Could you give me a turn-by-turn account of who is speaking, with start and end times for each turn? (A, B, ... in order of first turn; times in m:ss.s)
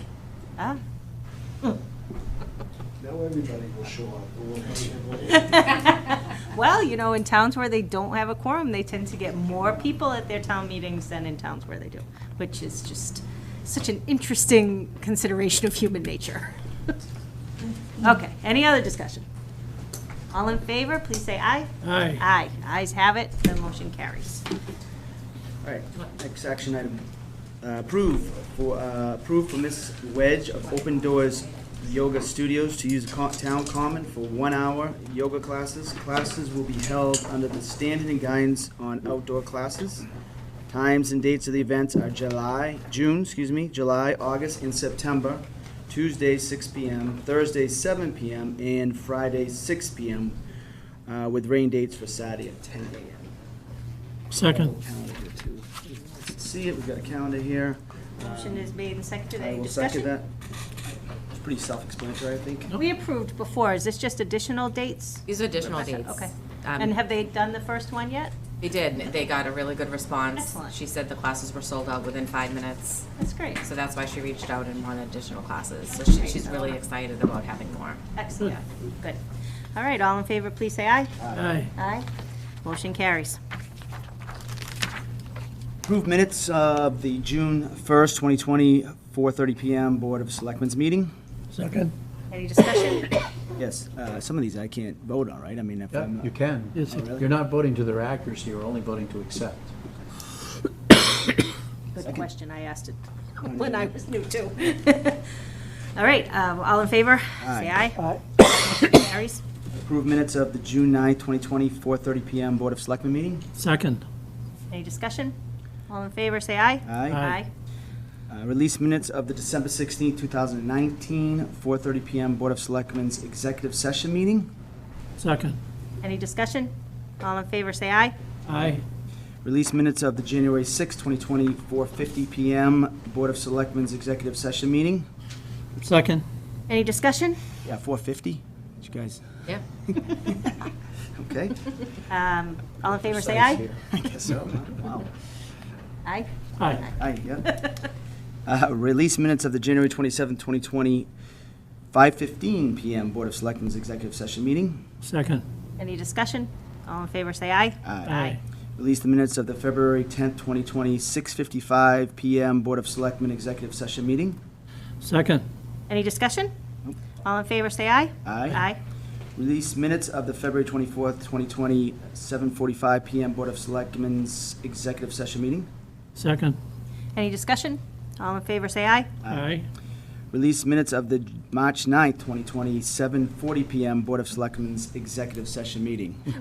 0:03.0-0:05.3 A
0:03.5-0:04.7 B
0:05.3-0:16.9 C
0:18.0-0:19.2 C
0:20.3-0:24.4 C
0:21.8-0:22.2 D
0:25.6-0:27.0 E
0:27.6-0:40.1 E
0:40.7-0:50.4 E
0:51.1-0:53.3 E
0:54.3-0:54.7 D
0:54.4-0:58.7 E
0:58.2-1:00.1 C
0:59.4-1:00.3 E
1:01.3-1:02.7 E
1:02.8-1:08.4 C
1:05.2-1:06.9 F
1:08.6-1:13.1 F
1:10.3-1:10.7 C
1:13.2-1:13.6 C
1:13.6-1:18.0 F
1:15.9-1:16.8 C
1:18.1-1:19.2 C
1:19.7-1:21.2 C
1:21.2-1:21.4 E
1:21.3-1:21.7 D
1:21.7-1:22.0 C
1:22.6-1:23.4 C
1:25.8-1:31.1 E
1:31.5-1:31.9 D
1:32.3-1:33.1 C
1:33.6-1:36.3 E
1:35.9-1:39.7 B
1:36.7-1:37.0 D
1:36.9-1:37.3 E
1:41.9-1:45.3 C
1:42.0-1:42.2 E
1:43.4-1:43.9 E
1:46.0-1:49.4 C
1:47.4-1:47.8 E
1:49.8-1:53.4 E
1:53.6-1:54.0 D
1:54.7-1:55.3 C
1:55.9-1:57.5 C
1:56.8-1:57.2 E
1:57.0-1:57.4 D
1:58.3-2:04.5 E
2:05.2-2:05.6 D
2:06.0-2:08.1 C
2:08.5-2:08.8 D
2:09.4-2:15.1 E
2:15.8-2:16.2 D
2:16.7-2:17.4 C
2:17.6-2:19.2 E
2:19.9-2:21.8 E
2:22.1-2:23.6 C
2:22.8-2:24.6 B
2:23.9-2:25.1 E
2:26.0-2:27.8 C
2:26.9-2:27.6 E
2:28.4-2:31.1 E
2:31.9-2:34.8 E
2:35.0-2:35.4 D
2:35.8-2:38.4 C
2:37.8-2:38.2 E
2:38.0-2:38.4 D
2:38.8-2:44.4 E
2:45.0-2:45.4 D
2:45.9-2:46.5 C
2:47.2-2:48.8 C
2:48.2-2:48.6 E
2:49.4-2:55.7 E
2:56.2-2:56.6 D
2:57.1-2:59.1 C
2:59.2-2:59.5 E
2:59.3-2:59.6 D
3:00.3-3:06.2 E